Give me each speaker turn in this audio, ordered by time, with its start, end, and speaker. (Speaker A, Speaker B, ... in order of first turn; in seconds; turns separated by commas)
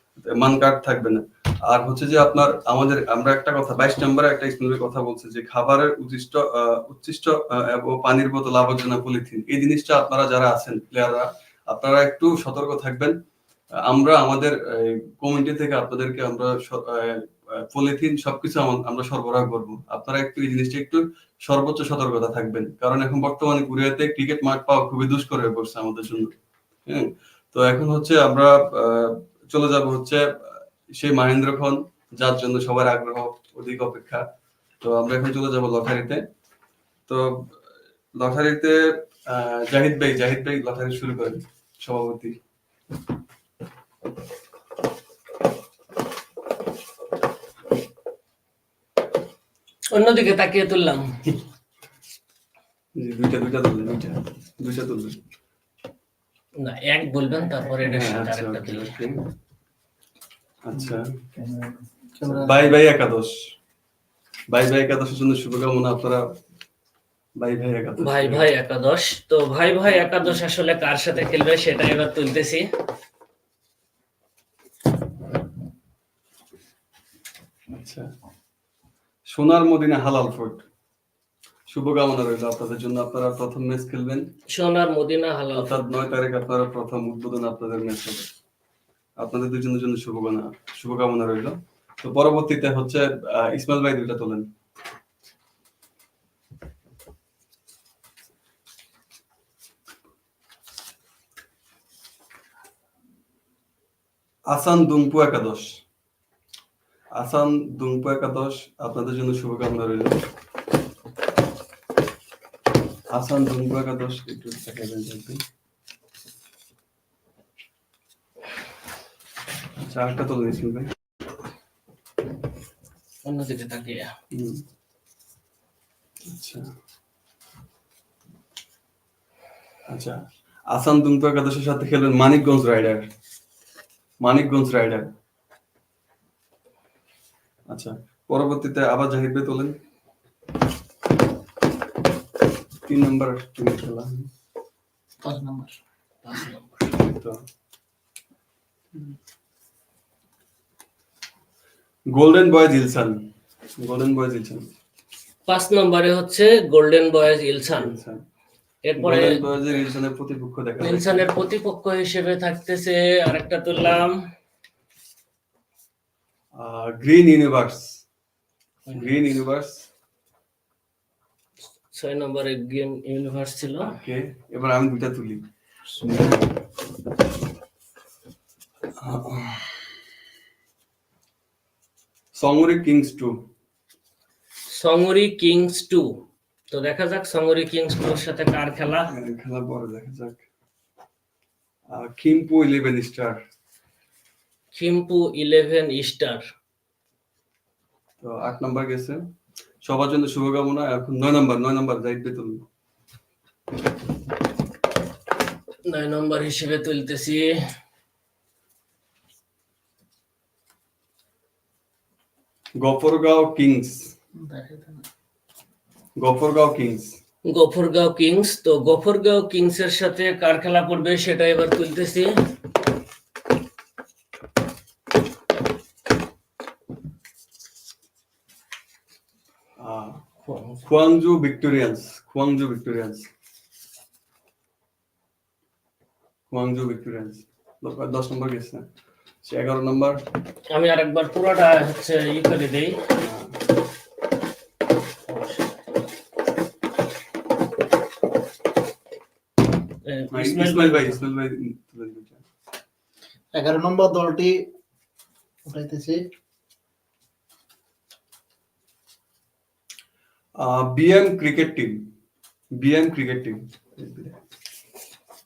Speaker A: 0.2-13.2, Speaker A: 13.8-26.3, Speaker A: 26.9-34.2, Speaker A: 34.8-36.2, Speaker A: 37.1-37.5, Speaker A: 38.1-42.3, Speaker B: 49.9-51.2, Speaker A: 53.0-55.2, Speaker B: 56.6-59.0, Speaker A: 57.8-59.2, Speaker A: 60.6-61.1, Speaker C: 61.3-62.7, Speaker A: 62.2-63.4, Speaker A: 64.5-66.2, Speaker A: 67.4-68.4, Speaker B: 68.0-72.7, Speaker A: 77.8-78.1, Speaker A: 79.3-80.6, Speaker A: 81.7-84.3, Speaker B: 84.5-85.8, Speaker A: 85.5-88.3, Speaker A: 89.2-94.5, Speaker A: 104.5-105.8, Speaker A: 107.1-110.2, Speaker A: 113.1-115.4, Speaker A: 119.8-120.9, Speaker B: 123.2-124.1, Speaker A: 124.3-124.6, Speaker A: 126.3-126.7, Speaker A: 129.9-133.1, Speaker A: 134.2-135.1, Speaker A: 137.7-139.8, Speaker A: 142.8-144.3, Speaker C: 145.2-145.8, Speaker B: 146.2-146.9, Speaker A: 147.0-147.4, Speaker A: 152.1-153.2, Speaker A: 153.8-154.7, Speaker B: 155.5-157.9, Speaker A: 157.8-158.2, Speaker B: 158.9-159.4, Speaker A: 158.9-161.2, Speaker B: 160.8-164.2, Speaker A: 166.5-168.0, Speaker A: 168.9-169.9, Speaker B: 171.9-173.9, Speaker A: 173.8-176.5, Speaker A: 179.0-179.9, Speaker A: 182.3-183.5, Speaker B: 184.7-189.1, Speaker A: 189.1-190.4, Speaker A: 191.9-193.4, Speaker B: 194.7-196.4, Speaker A: 198.2-199.2, Speaker A: 199.8-202.6, Speaker B: 205.9-207.5, Speaker A: 212.8-214.1, Speaker C: 214.3-215.0, Speaker A: 216.2-217.2, Speaker B: 217.5-222.3, Speaker A: 229.8-230.2, Speaker B: 230.4-230.8, Speaker A: 230.8-233.3, Speaker A: 236.5-238.8, Speaker A: 239.4-240.2, Speaker B: 240.7-243.0, Speaker A: 243.2-243.6, Speaker B: 245.3-245.7, Speaker B: 250.0-251.2, Speaker A: 250.3-252.4, Speaker C: 253.5-254.7, Speaker C: 255.6-256.2, Speaker A: 260.6-262.1, Speaker A: 262.8-264.4